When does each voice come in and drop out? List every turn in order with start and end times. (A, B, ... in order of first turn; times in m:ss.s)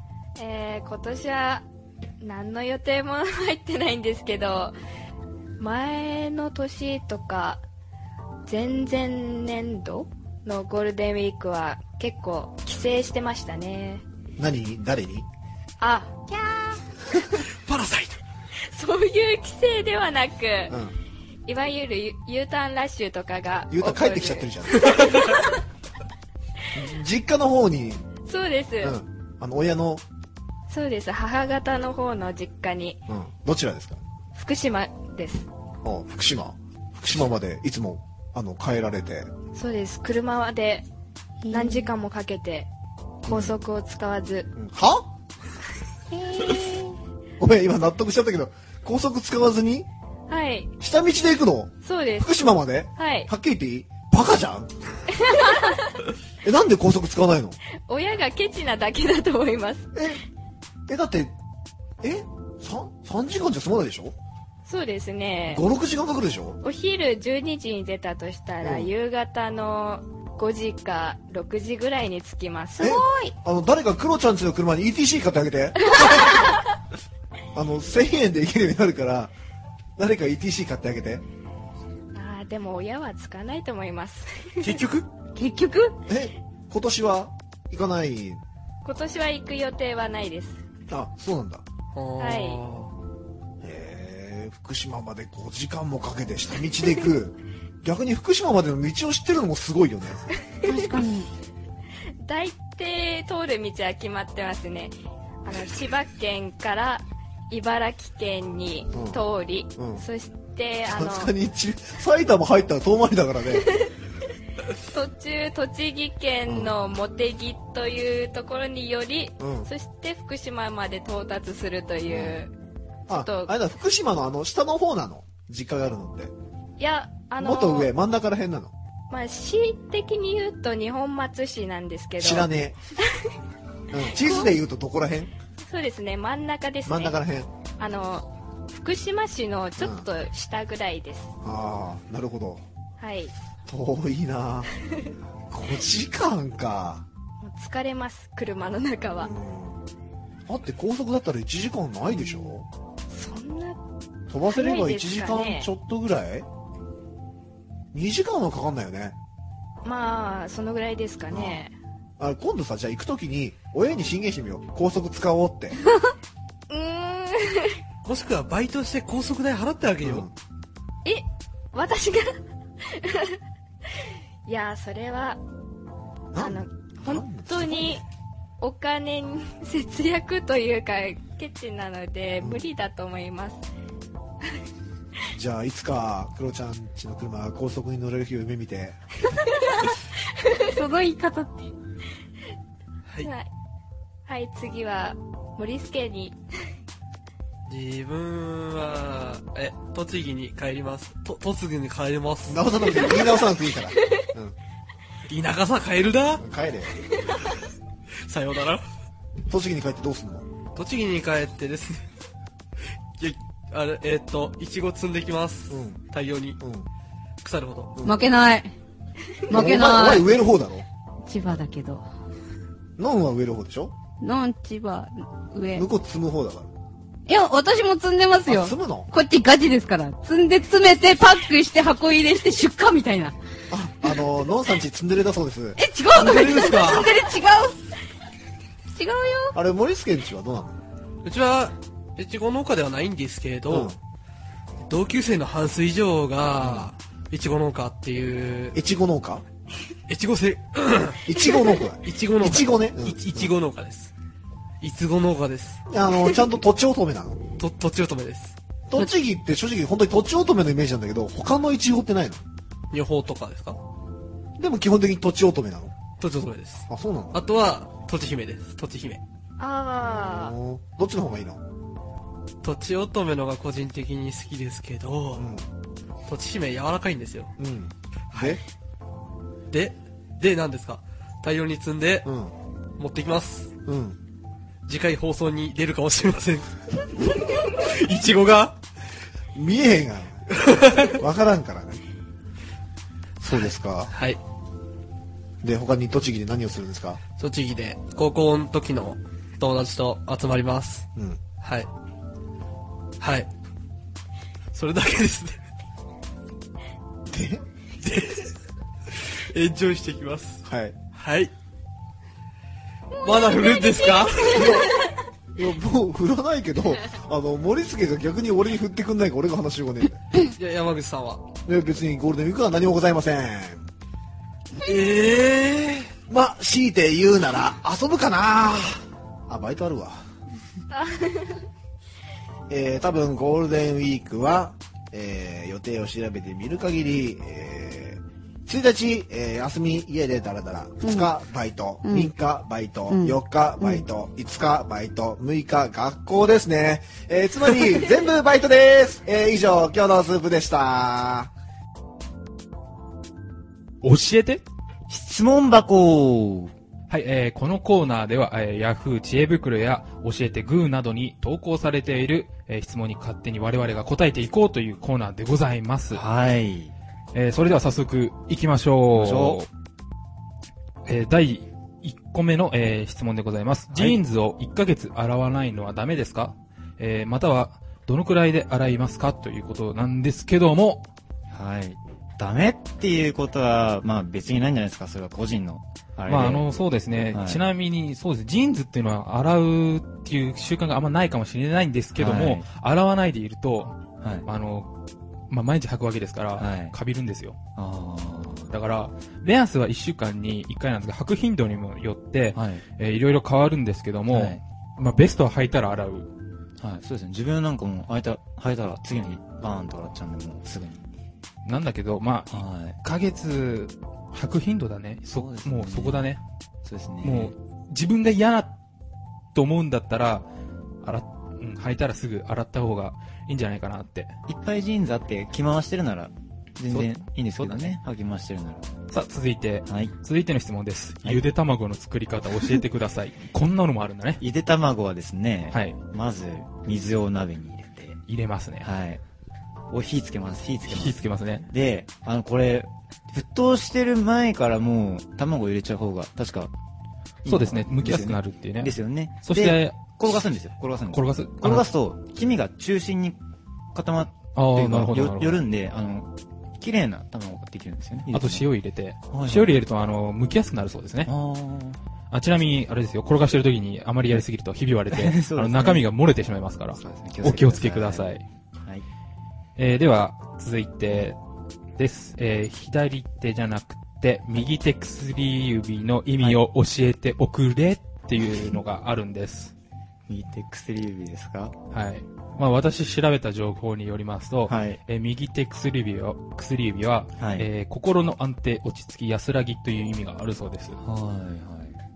0:00.4-0:01.6 A
0:02.2-0:04.7 A
0:05.6-0:07.6 A
0:08.5-0:14.0 A
0:14.4-0:15.3 B
0:15.8-0:16.8 A
0:17.5-0:18.2 C
0:18.7-0:20.8 A
0:20.7-0:20.9 B
0:21.5-0:25.5 A
0:23.7-0:25.0 B
0:26.7-0:28.0 B
0:28.3-0:29.0 A
0:28.8-0:30.0 B
0:30.7-0:33.0 A
0:33.1-0:34.0 B
0:34.3-0:35.5 A
0:35.8-0:39.3 B
0:39.5-0:40.8 A
0:41.4-0:41.9 D
0:41.5-0:42.7 A
0:43.2-0:44.5 A
0:43.3-0:43.5 B
0:44.6-0:45.1 B
0:46.1-0:46.9 D
0:47.4-0:49.9 B
0:50.3-0:50.7 A
0:50.8-0:54.7 B
0:51.8-0:52.4 A
0:53.0-0:53.3 A
0:55.2-0:55.8 A
0:56.4-0:57.6 B
0:57.9-0:59.9 A
0:59.9-1:00.2 B
1:00.9-1:01.3 B
1:02.0-1:04.2 B
1:04.6-1:05.6 A
1:05.5-1:06.6 B
1:06.6-1:12.9 A
1:08.6-1:08.9 B
1:12.8-1:13.3 D
1:12.8-1:16.2 B
1:16.0-1:16.6 A
1:17.5-1:19.3 B
1:20.0-1:21.2 B
1:22.1-1:24.8 A
1:24.6-1:25.1 C
1:25.3-1:25.9 D
1:26.1-1:28.4 B
1:28.8-1:30.6 A
1:30.9-1:31.6 B
1:31.9-1:32.9 C
1:32.2-1:32.6 A
1:33.6-1:40.3 B
1:40.6-1:41.3 D
1:42.2-1:51.3 A
1:48.9-1:49.2 B
1:49.8-1:50.0 B
1:50.9-1:53.7 B
1:53.6-1:53.9 A
1:54.9-2:02.5 A
1:56.4-1:56.7 B
1:59.4-1:59.7 B
2:02.1-2:02.4 B
2:03.1-2:06.3 B
2:03.1-2:03.5 A
2:06.8-2:07.9 A
2:07.4-2:08.7 B
2:09.1-2:12.5 A
2:12.2-2:12.8 B
2:13.9-2:15.3 B
2:14.1-2:14.5 A
2:15.6-2:17.2 A
2:16.8-2:17.5 B
2:17.8-2:21.3 A
2:19.8-2:20.0 B
2:21.4-2:22.6 B
2:23.0-2:23.3 A
2:23.7-2:24.7 B
2:25.5-2:27.0 B
2:27.4-2:29.3 A
2:29.2-2:29.8 B
2:30.5-2:32.7 B
2:33.1-2:33.8 A
2:34.3-2:36.5 B
2:34.5-2:35.7 A
2:37.9-2:39.2 B
2:39.8-2:41.7 A
2:41.3-2:41.7 B
2:42.2-2:45.8 B
2:46.7-2:47.8 A
2:48.0-2:50.3 C
2:50.0-2:50.3 B
2:51.0-2:52.3 A
2:52.9-2:53.4 A
2:54.4-2:55.4 A
2:56.3-2:58.0 B
2:56.4-2:58.0 A
2:58.6-3:03.6 A
3:02.4-3:02.6 B
3:05.3-3:09.0 B
3:10.7-3:11.7 D
3:13.2-3:13.5 A
3:14.3-3:16.4 A
3:17.7-3:22.6 C
3:22.5-3:24.5 B
3:25.3-3:26.4 C
3:26.4-3:27.0 B
3:28.2-3:28.8 C
3:29.5-3:30.4 B
3:30.7-3:32.0 C
3:33.2-3:36.6 C
3:35.7-3:36.0 B
3:36.6-3:36.9 B
3:37.4-3:37.9 C
3:38.0-3:38.7 D
3:39.5-3:40.3 D
3:39.5-3:40.9 B
3:41.2-3:42.0 D
3:43.0-3:43.9 B
3:44.2-3:45.8 D
3:45.7-3:46.7 B
3:47.3-3:53.3 D
3:48.5-3:49.1 B
3:53.7-3:57.0 B
3:55.8-3:57.8 D
3:56.2-3:57.1 C
3:58.9-3:59.6 D
3:59.5-4:00.8 B
4:01.2-4:03.9 C
4:03.7-4:04.0 B
4:04.9-4:08.8 C
4:06.6-4:06.9 B
4:08.7-4:09.4 B
4:10.1-4:11.2 C
4:11.2-4:13.5 B
4:12.0-4:14.1 C
4:14.8-4:15.9 C
4:15.9-4:17.4 B
4:17.6-4:18.6 C
4:18.9-4:22.4 B
4:22.9-4:23.8 C
4:24.6-4:25.9 B
4:26.2-4:29.2 C
4:26.9-4:27.4 B
4:29.6-4:30.5 A
4:30.0-4:31.6 B
4:32.6-4:35.4 C
4:35.4-4:35.6 B
4:36.3-4:37.5 C
4:37.6-4:38.6 B
4:38.3-4:38.6 C
4:39.7-4:42.3 C
4:42.2-4:42.5 B
4:43.0-4:43.7 C
4:43.8-4:44.2 B
4:44.8-4:48.8 C
4:49.5-4:52.0 B
4:50.6-4:51.2 C
4:53.4-4:54.1 B
4:53.5-4:54.4 C
4:55.6-4:57.2 B
4:57.4-5:01.1 C
5:01.2-5:01.4 B
5:01.6-5:01.9 C
5:03.2-5:03.5 C
5:04.7-5:05.6 C
5:07.3-5:07.6 B
5:08.0-5:08.5 C
5:09.1-5:11.5 C
5:10.6-5:11.0 B
5:13.2-5:14.8 C
5:13.2-5:14.2 D
5:14.5-5:14.9 B
5:15.6-5:20.2 B
5:20.4-5:21.4 C
5:21.6-5:23.8 B
5:24.8-5:26.1 C
5:26.3-5:30.2 B
5:30.9-5:31.6 A
5:32.7-5:51.5 B
5:41.0-5:41.3 D
5:42.0-5:42.3 D
5:43.1-5:44.0 D
5:54.0-5:54.6 E
5:55.1-5:56.7 F
5:57.1-6:06.2 E
6:06.1-6:06.9 F
6:07.3-6:09.7 E
6:09.1-6:09.6 F
6:11.0-6:21.0 E
6:13.9-6:14.2 F
6:21.5-6:26.6 F
6:26.3-6:34.9 E
6:27.3-6:27.6 F
6:32.1-6:32.7 F
6:34.2-6:34.4 F
6:35.5-6:37.6 E
6:36.6-6:36.9 F
6:37.8-6:38.7 F
6:38.7-6:46.3 E
6:42.5-6:42.8 F
6:44.3-6:44.6 F
6:46.8-6:51.0 F
6:51.6-6:56.4 E
6:52.5-6:53.0 F
6:55.3-6:56.3 F
6:56.8-6:57.5 F
6:57.2-6:58.7 E
6:59.5-7:00.4 E
7:01.0-7:04.3 E
7:04.5-7:08.9 F
7:06.9-7:08.0 E
7:09.1-7:14.4 E
7:09.9-7:10.1 F
7:14.4-7:18.2 F
7:15.7-7:16.0 E
7:18.3-7:18.9 E
7:18.8-7:19.2 F
7:19.9-7:26.7 F
7:20.9-7:21.7 E
7:27.4-7:30.0 E
7:27.4-7:33.4 F
7:31.1-7:31.9 E
7:33.9-7:38.7 F
7:34.5-7:35.6 E
7:38.3-7:41.3 E
7:39.3-7:39.8 F
7:41.2-7:42.0 F
7:42.3-7:48.4 E
7:45.1-7:46.1 F
7:47.0-7:49.0 F
7:49.8-7:51.4 E
7:52.0-7:59.7 E
7:58.4-7:58.8 F
8:00.3-8:01.8 F
8:01.9-8:11.0 E
8:04.7-8:05.0 F
8:07.4-8:07.7 F
8:11.0-8:12.0 F